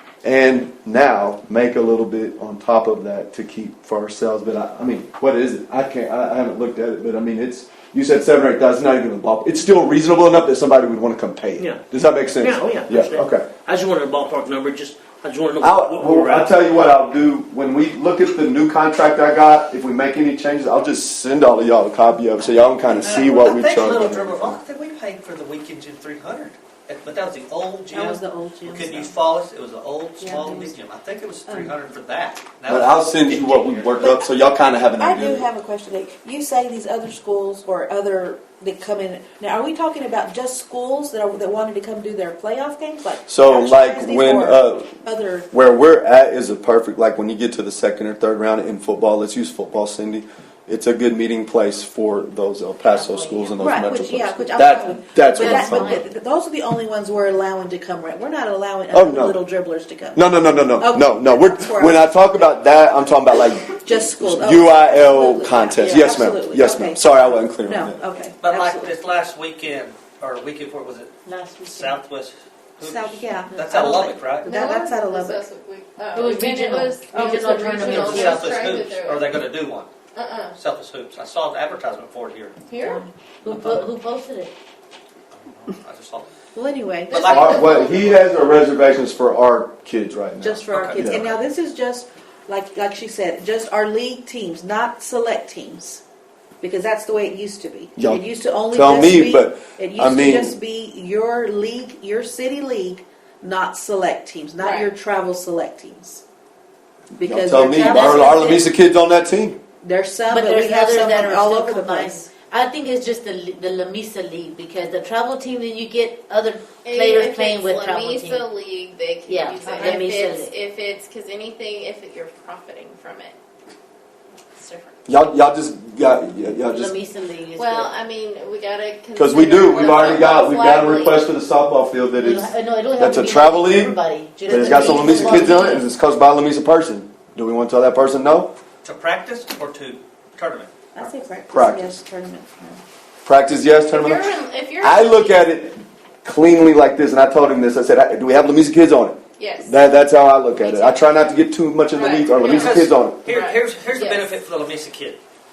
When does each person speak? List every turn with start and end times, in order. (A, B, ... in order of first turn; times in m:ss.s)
0:00.2-0:13.5 A
0:11.6-0:16.9 B
0:15.6-0:24.6 A
0:23.0-0:34.2 C
0:27.9-0:29.1 D
0:30.2-0:30.7 D
0:31.5-0:31.7 D
0:32.7-0:35.5 A
0:35.0-0:45.5 D
0:43.3-0:45.0 A
0:45.5-0:56.0 A
0:52.8-0:53.8 E
0:53.6-1:02.9 D
0:55.3-0:56.1 E
0:58.9-0:59.4 A
1:00.1-1:08.0 A
1:03.7-1:08.9 D
1:05.8-1:06.1 E
1:08.4-1:11.1 C
1:11.2-1:11.9 E
1:11.6-1:14.5 C
1:12.8-1:15.4 D
1:14.4-1:19.4 F
1:16.1-1:18.1 E
1:17.2-1:18.4 D
1:17.8-1:19.9 C
1:20.1-1:20.6 F
1:20.6-1:22.5 C
1:22.6-1:23.0 F
1:22.9-1:24.5 E
1:25.4-1:26.2 C
1:26.5-1:27.8 D
1:27.1-1:28.2 C
1:27.3-1:31.3 A
1:30.4-1:36.0 D
1:30.7-1:31.0 C
1:36.6-1:46.2 D
1:38.0-1:40.6 A
1:44.6-1:44.9 F
1:47.1-1:48.7 D
1:47.2-1:49.6 A
1:47.8-1:48.3 E
1:49.8-1:52.3 D
1:50.3-1:58.5 E
1:56.8-2:03.4 F
1:59.2-2:00.5 E
2:04.4-2:05.2 F
2:05.0-2:06.9 A
2:06.7-2:07.9 E
2:07.5-2:11.3 F
2:09.2-2:18.5 A
2:12.2-2:15.9 E
2:14.7-2:15.7 D
2:18.8-2:20.7 C
2:20.9-2:22.8 D
2:21.5-2:22.0 A
2:23.2-2:33.2 A
2:23.8-2:25.5 F
2:29.4-2:29.9 F
2:30.5-2:31.1 F
2:31.9-2:34.3 F
2:32.4-2:35.2 C